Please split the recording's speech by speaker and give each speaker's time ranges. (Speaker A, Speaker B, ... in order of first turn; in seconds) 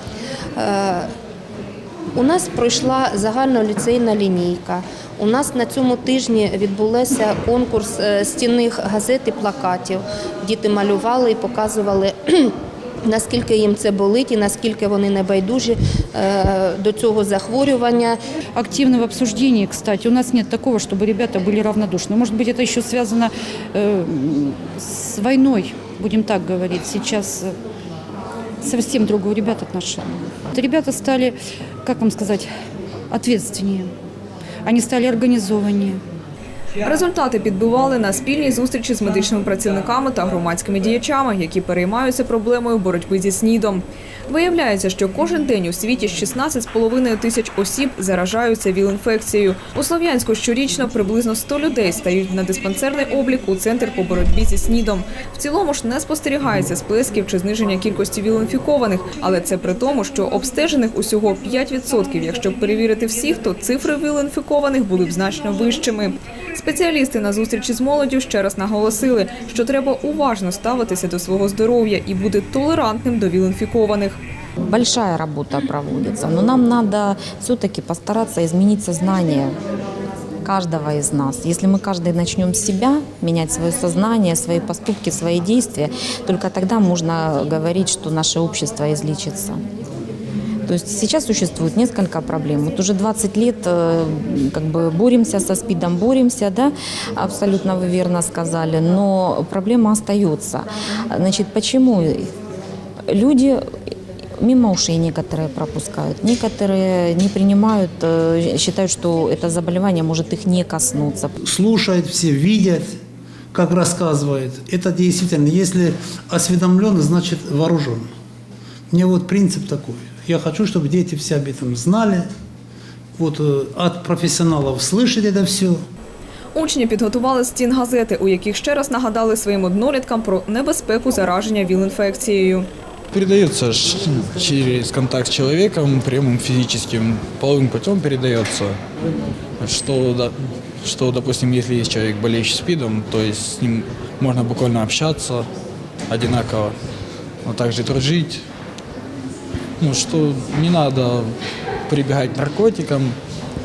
Speaker A: 0.6-1.1, 2.1-12.5, 13.1-18.2
Speaker B: 18.6-27.5, 28.6-32.5, 33.1-33.9, 34.6-36.0
Speaker C: 36.8-74.2, 126.5-132.7
Speaker D: 74.7-79.5, 80.4-89.6, 90.7-102.3, 103.1-103.6, 104.4-111.3
Speaker E: 111.4-113.0, 113.5-118.1, 118.9-122.2, 123.2-125.8
Speaker F: 133.1-138.8, 139.6-145.5, 146.1-146.7, 147.4-148.4, 149.8-151.3, 151.9-153.2